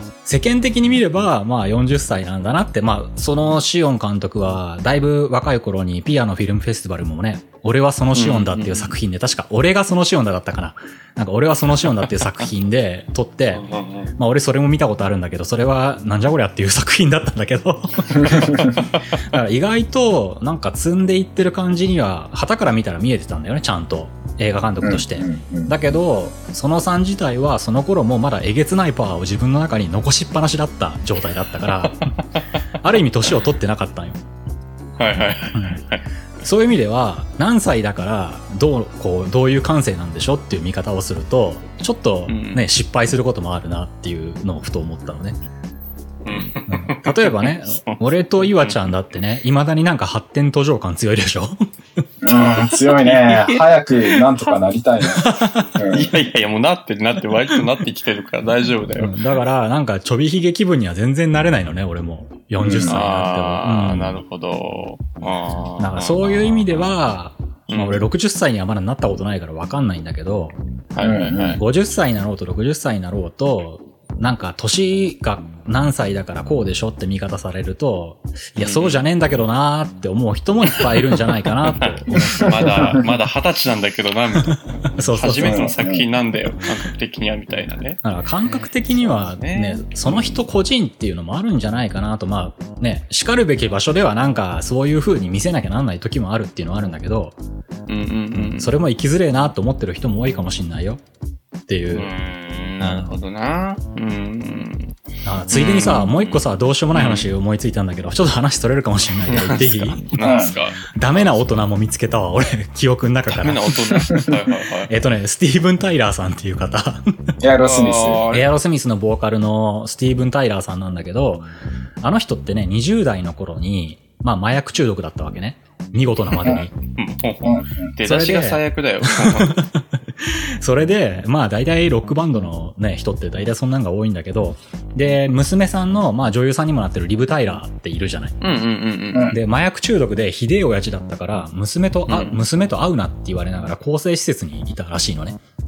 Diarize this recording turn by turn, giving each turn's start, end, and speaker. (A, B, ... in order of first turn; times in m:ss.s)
0:00.2-0:13.6 A
0:08.1-0:08.9 B
0:13.5-0:14.1 B
0:14.2-0:32.1 A
0:18.3-0:18.8 C
0:24.8-0:25.7 C
0:31.8-0:32.6 B
0:32.8-0:34.2 A
0:35.0-0:36.0 B
0:35.5-0:35.8 A
0:36.4-0:45.4 A
0:42.3-0:42.6 B
0:46.2-0:48.9 B
0:46.7-0:51.6 A
0:52.2-0:56.1 C
0:52.3-0:54.6 B
0:55.1-0:55.7 A
0:55.9-0:59.1 B
0:59.0-1:04.2 A
1:02.6-1:02.9 C
1:02.7-1:06.9 B
1:05.8-1:10.5 A
1:07.7-1:08.0 B
1:10.9-1:11.6 B
1:11.0-1:11.6 C
1:11.6-1:22.7 A
1:18.6-1:19.0 B
1:20.7-1:30.4 B
1:25.0-1:25.7 A
1:25.4-1:26.0 C
1:28.0-1:37.4 A
1:37.9-1:38.8 B
1:38.3-1:41.0 A
1:41.7-1:42.1 A
1:41.9-1:44.9 B
1:42.8-1:43.1 A
1:45.2-1:50.4 A
1:45.5-1:47.3 B
1:49.3-1:51.4 B
1:50.2-1:50.5 C
1:50.9-1:53.8 A
1:53.3-1:54.9 B
1:54.9-1:57.2 A
1:57.4-1:58.2 C
1:57.6-1:58.4 B
1:58.3-2:01.5 A
2:02.0-2:06.7 A
2:06.9-2:09.6 B
2:07.4-2:07.8 C
2:08.0-2:18.4 A
2:18.4-2:19.4 B
2:19.3-2:25.4 A
2:22.1-2:22.4 B